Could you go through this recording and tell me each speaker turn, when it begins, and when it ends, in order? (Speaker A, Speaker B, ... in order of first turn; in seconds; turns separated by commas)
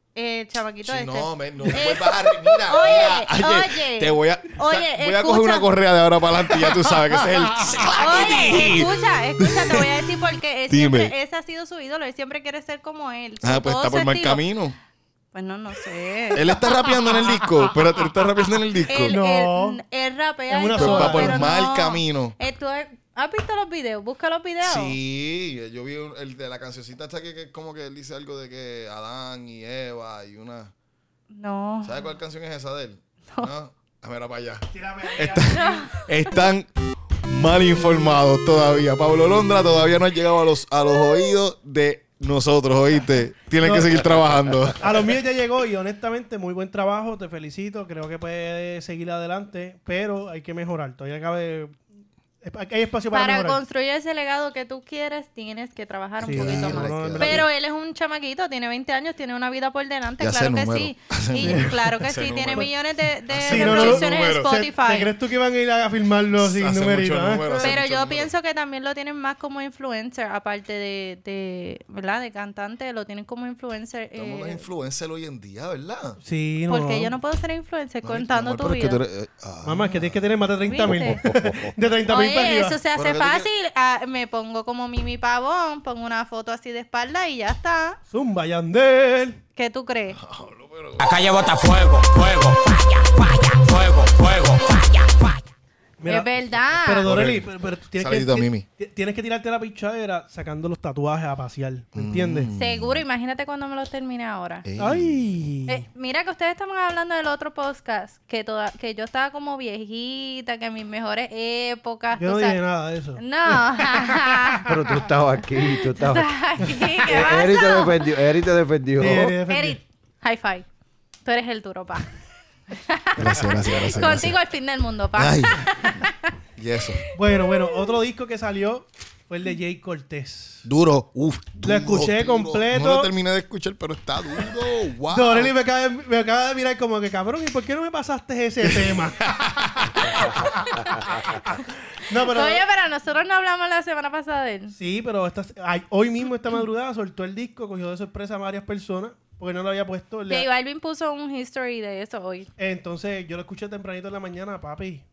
Speaker A: 0.1-5.7, Speaker B: 0.8-9.9, Speaker A: 7.9-14.4, Speaker B: 10.7-11.1, Speaker B: 13.4-14.8, Speaker A: 15.3-16.4, Speaker B: 16.3-19.2, Speaker A: 18.9-25.0, Speaker C: 19.1-19.8, Speaker C: 20.5-21.5, Speaker B: 20.8-22.4, Speaker B: 24.6-30.7, Speaker A: 31.3-32.0, Speaker B: 31.8-36.7, Speaker C: 34.7-35.9, Speaker A: 35.5-35.9, Speaker B: 37.2-45.1, Speaker C: 37.8-38.1, Speaker C: 43.6-44.0, Speaker C: 44.8-51.9, Speaker C: 52.4-53.6, Speaker A: 53.1-65.1, Speaker B: 56.2-57.5, Speaker C: 56.2-57.5, Speaker B: 60.2-64.6, Speaker C: 61.4-61.7, Speaker C: 63.4-67.8, Speaker B: 66.3-68.3, Speaker A: 67.5-74.6, Speaker B: 74.1-76.2, Speaker C: 76.2-77.1, Speaker A: 76.7-79.0, Speaker B: 78.0-80.3, Speaker C: 79.6-82.8, Speaker A: 80.6-81.2, Speaker D: 81.2-81.7, Speaker A: 82.1-88.0, Speaker B: 82.9-83.5, Speaker C: 88.1-89.4, Speaker A: 89.5-90.2, Speaker B: 90.1-91.0, Speaker E: 91.0-95.5, Speaker C: 96.0-102.5, Speaker A: 96.1-97.1, Speaker B: 97.0-98.7, Speaker B: 101.9-103.0, Speaker A: 102.5-104.6, Speaker B: 104.6-105.3, Speaker C: 104.8-105.8, Speaker A: 105.7-112.6, Speaker C: 112.2-114.8, Speaker A: 113.2-114.7, Speaker D: 114.7-119.4, Speaker A: 116.1-118.0, Speaker C: 116.6-117.0, Speaker C: 119.0-119.8, Speaker A: 119.5-120.7, Speaker A: 121.2-122.1, Speaker A: 122.7-126.3, Speaker B: 123.2-124.4, Speaker B: 125.2-126.0, Speaker B: 126.5-127.0, Speaker C: 127.1-130.6, Speaker B: 130.6-135.6, Speaker C: 131.6-133.1, Speaker C: 135.1-139.3, Speaker B: 138.6-139.9, Speaker C: 140.1-140.8, Speaker C: 142.0-142.6, Speaker A: 142.2-144.7, Speaker C: 144.7-150.5, Speaker A: 150.3-152.5, Speaker C: 152.6-155.0